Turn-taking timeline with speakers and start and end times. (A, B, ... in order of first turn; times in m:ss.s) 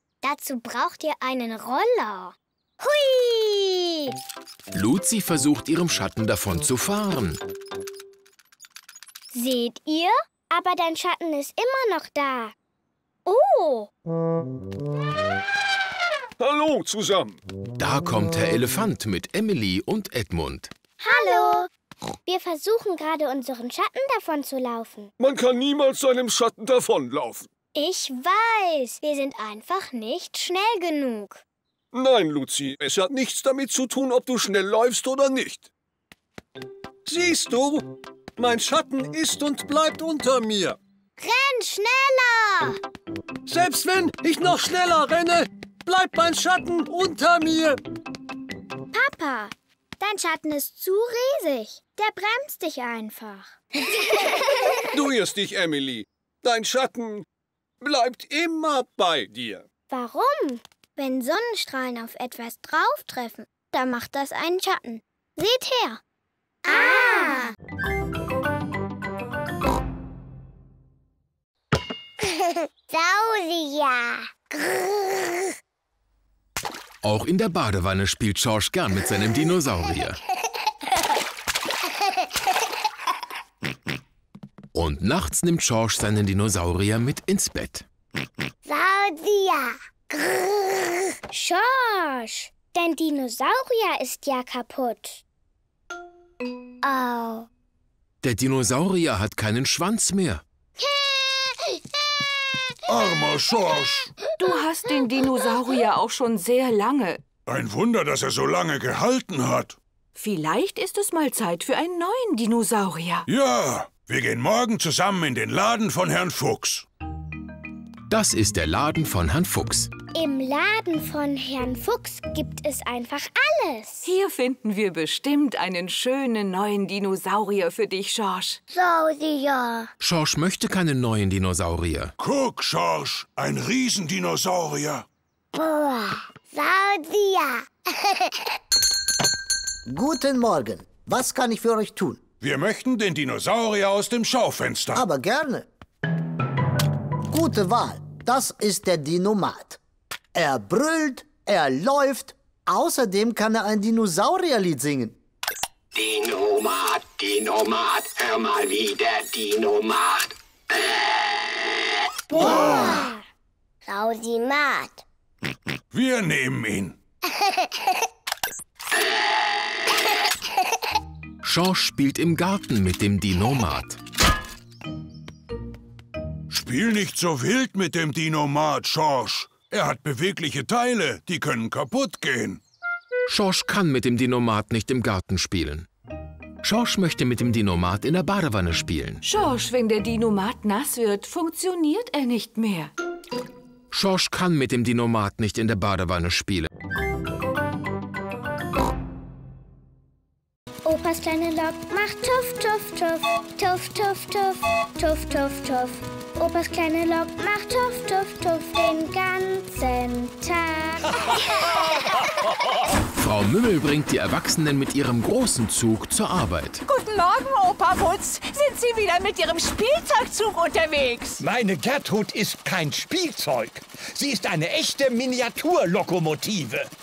0:02.8-0:04.0 A
0:04.7-0:07.4 B
0:09.5-0:12.6 C
0:16.4-0:17.4 D
0:17.8-0:20.7 B
0:21.0-0:21.7 C
0:21.1-0:21.6 A
0:22.3-0:25.1 C
0:25.2-0:27.5 D
0:27.8-0:31.4 C
0:31.9-0:35.7 D
0:37.1-0:40.8 D
0:41.2-0:42.7 A
0:43.5-0:47.8 D
0:49.2-0:49.4 C
0:50.0-0:52.6 A
0:54.9-0:57.2 D
0:57.8-0:59.6 D
0:59.9-1:00.6 C
1:01.0-1:06.0 A
1:06.7-1:07.4 A
1:17.0-1:20.2 B
1:24.7-1:27.9 B
1:31.3-1:35.2 C
1:38.2-1:40.4 B
1:42.9-1:44.1 E
1:44.4-1:47.2 F
1:47.5-1:49.8 E
1:50.2-1:53.3 F
1:53.3-1:56.8 E
1:58.1-1:59.9 B
2:00.1-2:04.1 C
2:04.0-2:08.6 F
2:10.0-2:12.1 B
2:12.2-2:15.1 E
2:19.9-2:22.2 G
2:22.4-2:25.0 E
2:25.0-2:25.6 G
2:27.3-2:29.8 G
2:30.3-2:35.2 G
2:36.0-2:41.2 H
2:42.5-2:43.0 E
2:45.9-2:47.0 E
2:51.4-2:54.0 B
2:56.5-3:02.6 E
3:03.3-3:05.9 B
3:06.6-3:09.2 B
3:09.2-3:12.9 F
3:13.9-3:16.7 B
3:20.8-3:31.1 C
3:33.2-3:36.8 B
3:36.8-3:41.4 I
3:41.4-3:46.9 J